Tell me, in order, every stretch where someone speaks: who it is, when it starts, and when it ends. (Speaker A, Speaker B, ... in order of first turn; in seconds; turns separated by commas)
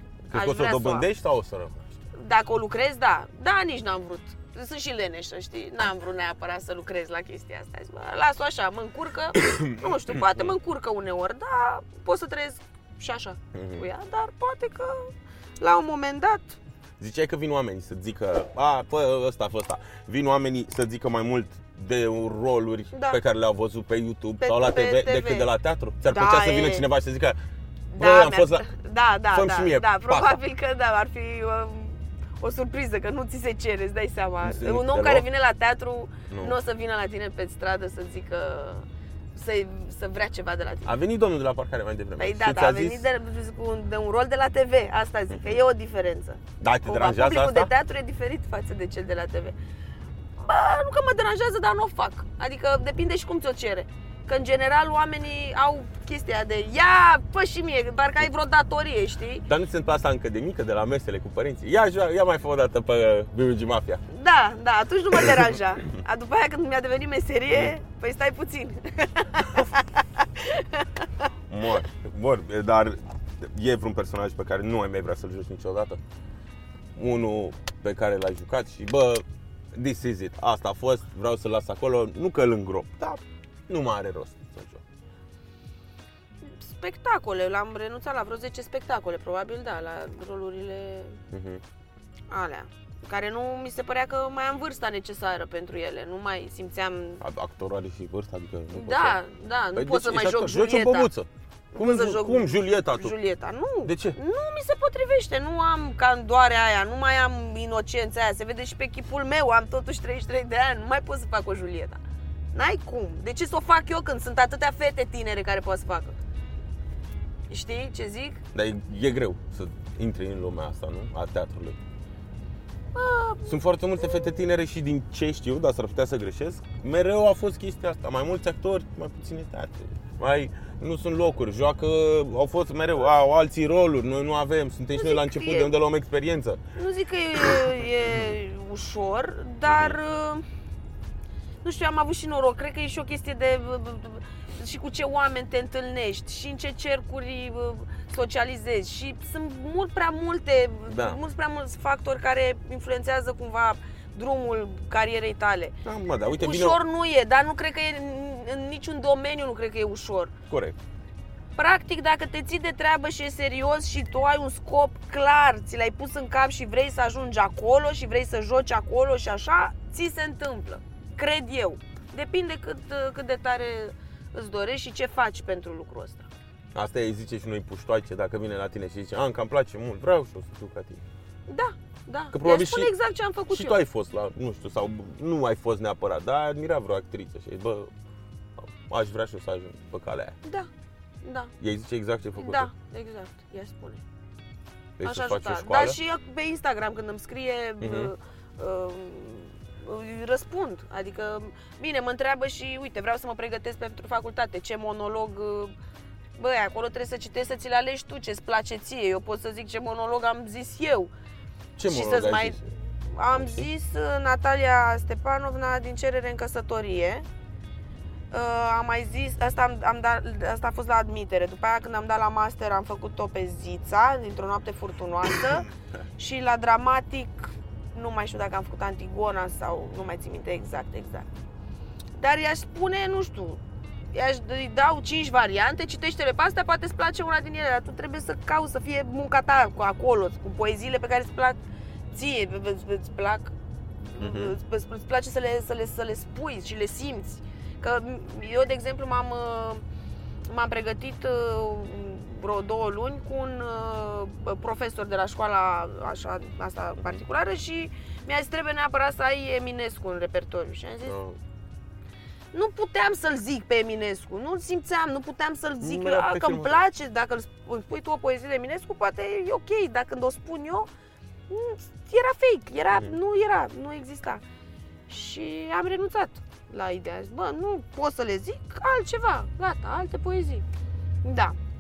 Speaker A: 0.3-1.9, Speaker B: 0.3-1.1, Speaker B: 2.1-16.6, Speaker A: 9.3-10.6, Speaker A: 13.5-13.9, Speaker A: 17.0-27.4, Speaker B: 22.9-23.2, Speaker B: 24.4-25.5, Speaker B: 26.1-26.9, Speaker B: 27.9-40.9, Speaker A: 28.0-28.7, Speaker A: 29.3-30.4, Speaker A: 34.4-35.3, Speaker A: 36.3-36.6, Speaker A: 40.9-43.1, Speaker B: 42.2-49.6, Speaker A: 45.3-45.6, Speaker A: 46.6-47.7, Speaker B: 50.4-59.5, Speaker A: 59.5-64.0, Speaker B: 64.1-71.1, Speaker A: 65.2-65.5, Speaker A: 71.5-76.0, Speaker A: 77.0-84.8, Speaker B: 86.4-91.2, Speaker A: 91.3-91.6, Speaker B: 92.3-97.2, Speaker A: 97.2-99.2, Speaker B: 98.7-101.1, Speaker A: 99.8-103.2, Speaker B: 101.7-112.0, Speaker A: 103.8-104.2, Speaker B: 112.5-116.2, Speaker B: 117.5-118.4, Speaker A: 118.5-121.8, Speaker B: 122.9-124.3, Speaker A: 123.5-136.6, Speaker B: 134.9-135.7, Speaker B: 136.8-140.4, Speaker A: 137.4-138.4, Speaker A: 139.7-140.0, Speaker B: 141.6-155.8, Speaker A: 150.9-151.2, Speaker A: 155.8-156.8, Speaker B: 156.3-160.3, Speaker A: 160.5-160.8, Speaker B: 161.6-176.3, Speaker A: 176.7-181.0, Speaker B: 181.5-183.8, Speaker A: 182.3-182.9, Speaker A: 183.5-187.9, Speaker A: 188.6-190.4, Speaker B: 191.2-191.5, Speaker A: 191.6-192.7, Speaker B: 192.4-194.0, Speaker A: 195.0-196.0, Speaker B: 195.0-205.7, Speaker A: 197.8-198.1, Speaker B: 206.4-211.1, Speaker A: 211.8-212.6, Speaker B: 211.8-212.6, Speaker B: 213.1-217.3, Speaker A: 213.3-213.7, Speaker B: 218.3-231.3, Speaker A: 225.4-226.0, Speaker B: 232.2-233.6, Speaker B: 234.1-241.6, Speaker B: 242.1-243.5, Speaker B: 244.1-249.8, Speaker A: 244.2-244.6, Speaker B: 250.5-261.2, Speaker A: 261.1-261.4, Speaker B: 262.5-270.9, Speaker A: 265.8-266.8, Speaker B: 271.5-274.4, Speaker A: 272.9-273.2, Speaker B: 275.1-280.6, Speaker B: 281.2-281.6